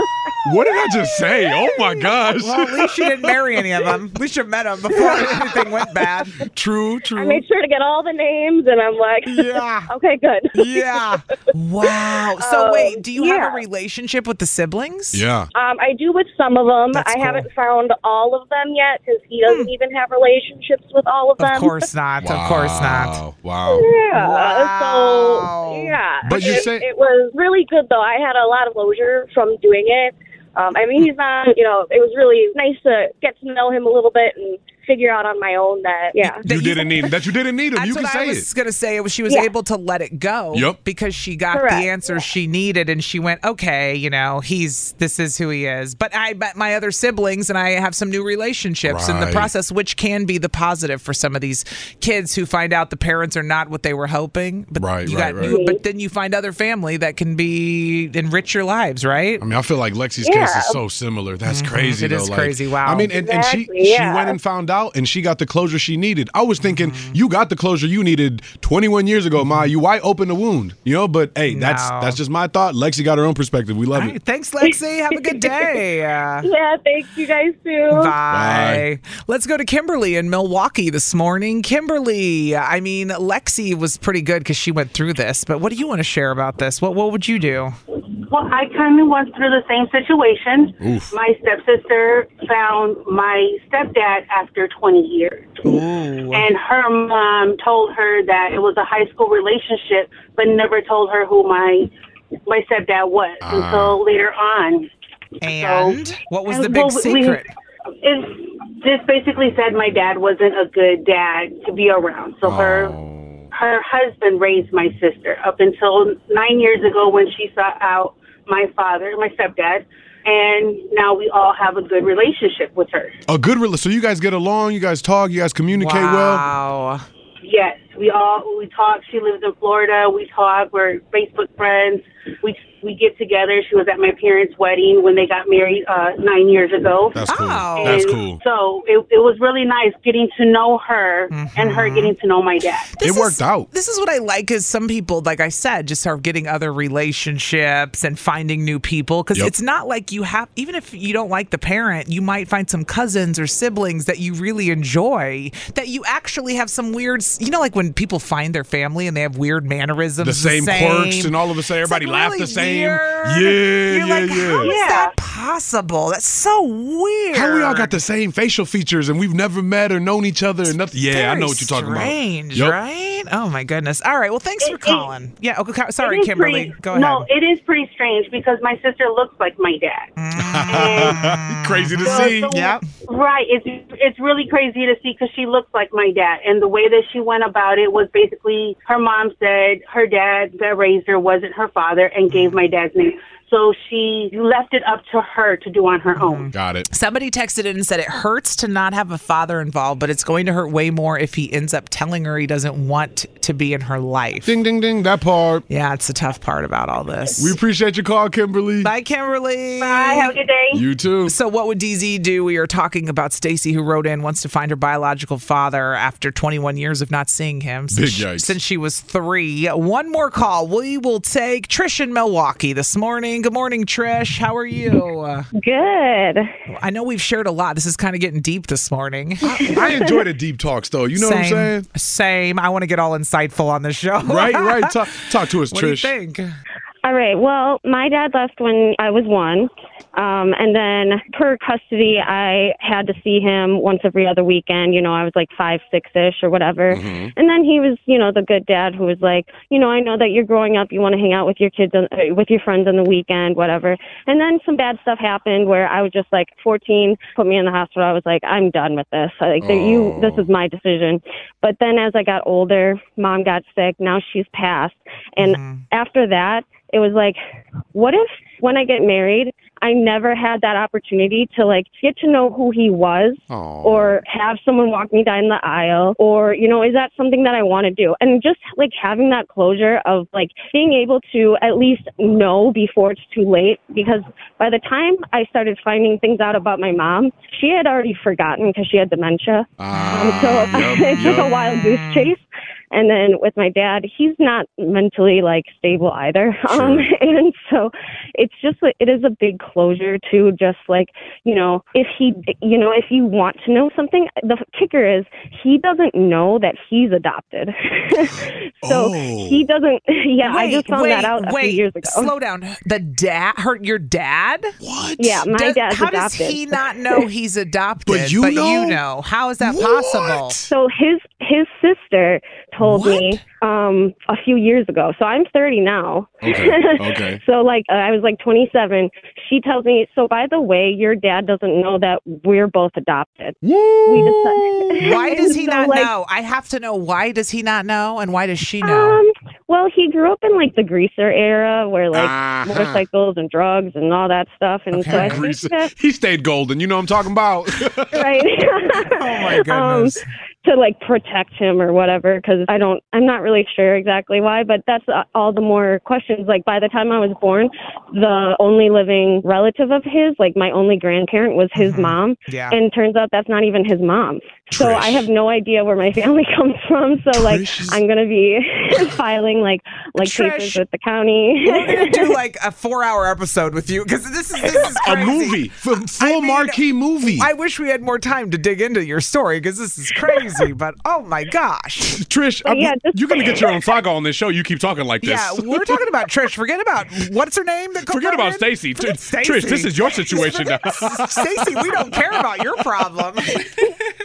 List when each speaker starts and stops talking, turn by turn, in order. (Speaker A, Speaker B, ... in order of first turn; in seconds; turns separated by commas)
Speaker A: 0.4-3.5, Speaker B: 2.3-6.4, Speaker A: 6.5-7.4, Speaker C: 7.2-9.4, Speaker A: 9.4-9.7, Speaker B: 9.5-9.9, Speaker C: 10.0-10.8, Speaker B: 10.5-15.2, Speaker C: 12.4-13.6, Speaker A: 15.1-15.5, Speaker C: 15.6-21.7, Speaker B: 16.9-17.5, Speaker B: 21.4-23.2, Speaker A: 22.2-23.9, Speaker B: 24.1-26.0, Speaker C: 24.2-36.3, Speaker A: 26.2-26.9, Speaker A: 36.3-38.5, Speaker B: 36.4-37.1, Speaker B: 37.7-59.4, Speaker A: 40.5-40.8, Speaker C: 41.5-41.8, Speaker A: 48.8-49.5, Speaker A: 54.8-55.6, Speaker A: 59.4-74.2, Speaker C: 60.3-60.6, Speaker B: 61.5-63.1, Speaker C: 63.3-64.3, Speaker B: 66.6-67.2, Speaker B: 69.4-69.7, Speaker B: 71.5-72.2, Speaker B: 73.9-76.5, Speaker C: 76.4-78.1, Speaker B: 77.9-87.7, Speaker A: 78.3-78.8, Speaker D: 88.1-95.8, Speaker A: 90.8-91.1, Speaker B: 95.6-96.5, Speaker D: 96.3-101.9, Speaker D: 102.5-104.9, Speaker A: 103.4-104.0, Speaker B: 105.4-107.5, Speaker D: 105.4-107.4, Speaker D: 108.0-113.0, Speaker A: 112.4-113.5, Speaker D: 113.5-123.2, Speaker A: 123.3-126.5, Speaker B: 125.7-127.0, Speaker D: 127.4-142.9, Speaker A: 137.1-138.4, Speaker B: 137.3-138.2, Speaker B: 141.3-142.1, Speaker B: 142.9-167.9, Speaker A: 143.0-143.7, Speaker A: 160.2-164.8, Speaker D: 164.6-165.1, Speaker A: 167.3-172.8, Speaker B: 171.1-177.3, Speaker D: 174.6-175.1, Speaker D: 176.0-180.1, Speaker B: 180.2-182.8, Speaker A: 180.4-182.6, Speaker D: 180.7-181.3, Speaker D: 182.0-196.5, Speaker B: 192.3-192.6, Speaker B: 196.2-204.5, Speaker A: 196.5-196.9, Speaker A: 204.4-205.6, Speaker B: 205.7-207.6, Speaker A: 207.4-208.9, Speaker B: 208.8-210.3, Speaker D: 209.8-210.8, Speaker A: 210.7-211.3, Speaker B: 211.2-225.5, Speaker A: 217.9-218.6, Speaker E: 225.5-226.5, Speaker B: 226.7-229.8, Speaker A: 229.4-231.9, Speaker E: 229.6-230.1, Speaker B: 231.2-234.9, Speaker A: 234.2-236.1, Speaker B: 235.7-236.5, Speaker E: 237.0-267.4, Speaker A: 246.9-247.3, Speaker A: 259.6-260.5, Speaker B: 265.4-265.8, Speaker E: 267.9-312.3, Speaker A: 273.5-274.2, Speaker A: 289.8-291.7, Speaker B: 291.2-292.3, Speaker A: 296.7-297.1, Speaker A: 308.2-309.6, Speaker B: 310.4-314.7, Speaker A: 314.8-315.4, Speaker E: 315.2-317.2, Speaker B: 315.5-320.6, Speaker A: 318.1-319.0, Speaker A: 319.6-320.7, Speaker E: 320.7-336.1, Speaker B: 322.8-323.4, Speaker A: 326.4-327.4, Speaker A: 333.6-335.7, Speaker B: 335.0-339.2, Speaker E: 338.8-345.9, Speaker A: 342.1-343.0, Speaker B: 344.9-345.4, Speaker A: 345.1-348.5, Speaker E: 348.1-372.3, Speaker B: 349.0-350.2, Speaker B: 361.7-362.8, Speaker A: 364.7-365.3, Speaker A: 367.3-368.0, Speaker B: 370.2-370.8, Speaker B: 371.6-382.2, Speaker A: 374.7-377.5, Speaker A: 382.1-386.0, Speaker E: 382.6-383.7, Speaker B: 385.2-393.9, Speaker A: 388.1-392.4